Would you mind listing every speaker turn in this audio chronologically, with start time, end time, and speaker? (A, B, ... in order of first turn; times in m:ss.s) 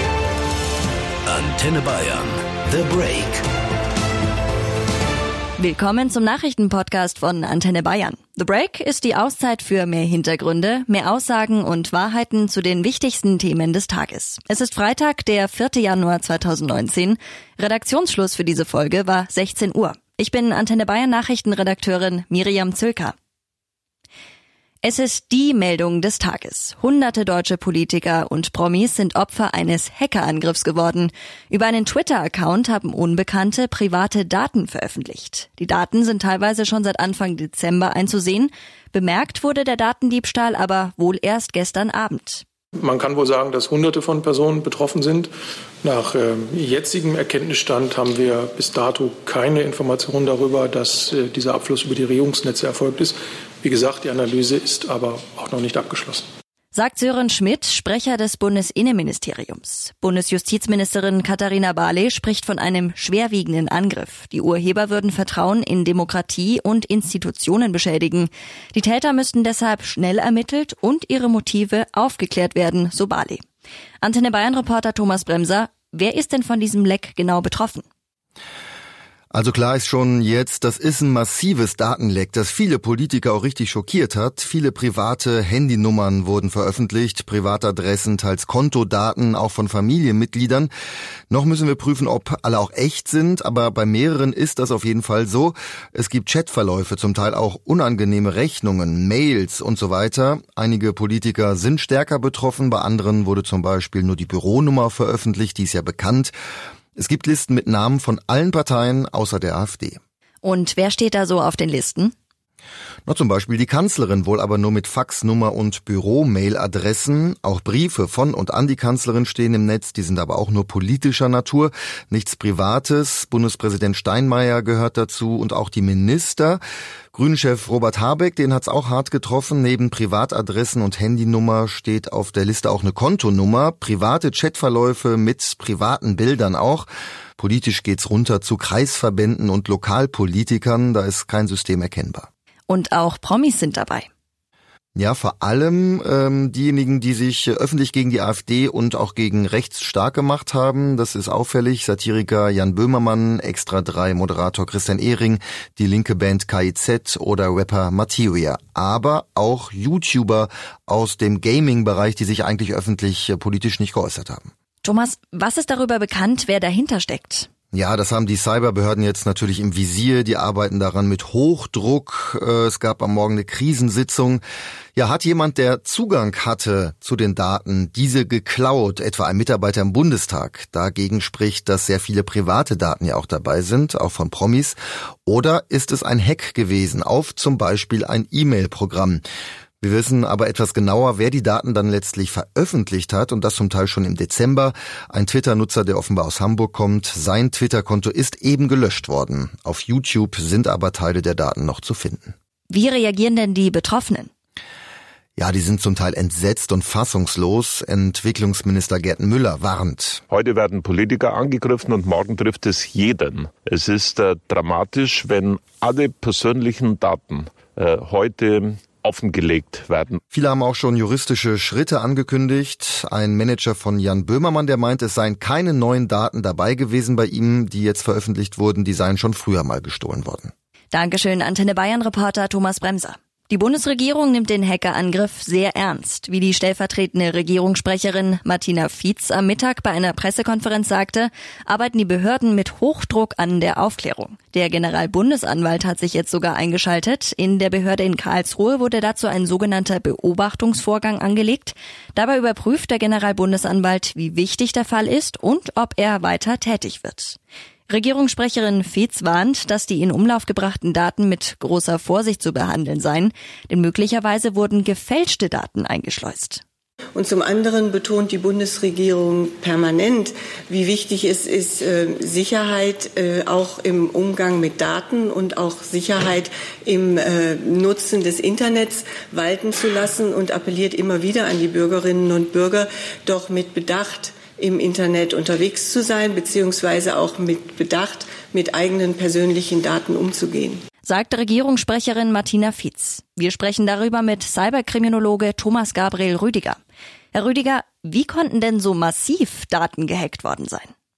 0:01.2-0:03.4 A
0:05.6-0:23.1 B
0:24.8-0:42.4 B
0:42.8-0:45.3 C
0:45.8-0:56.2 C
0:56.7-1:13.4 B
1:14.0-1:17.8 B
1:19.3-1:30.7 D
1:31.3-1:46.3 D
1:47.0-1:50.0 D
1:50.4-1:52.1 B
1:53.0-2:06.6 D
2:07.1-2:22.3 D
2:22.7-2:24.1 B
2:24.9-2:44.5 D
2:44.8-2:47.5 B
2:47.7-2:54.4 D
2:55.0-3:09.2 D
3:09.8-3:22.3 D
3:22.7-3:24.3 B
3:25.4-3:30.2 D
3:30.3-3:40.2 E
3:40.3-3:50.5 D
3:50.9-4:17.4 B
4:17.9-4:26.6 B
4:27.1-4:50.8 F
4:51.0-4:56.8 B
4:57.3-5:00.9 B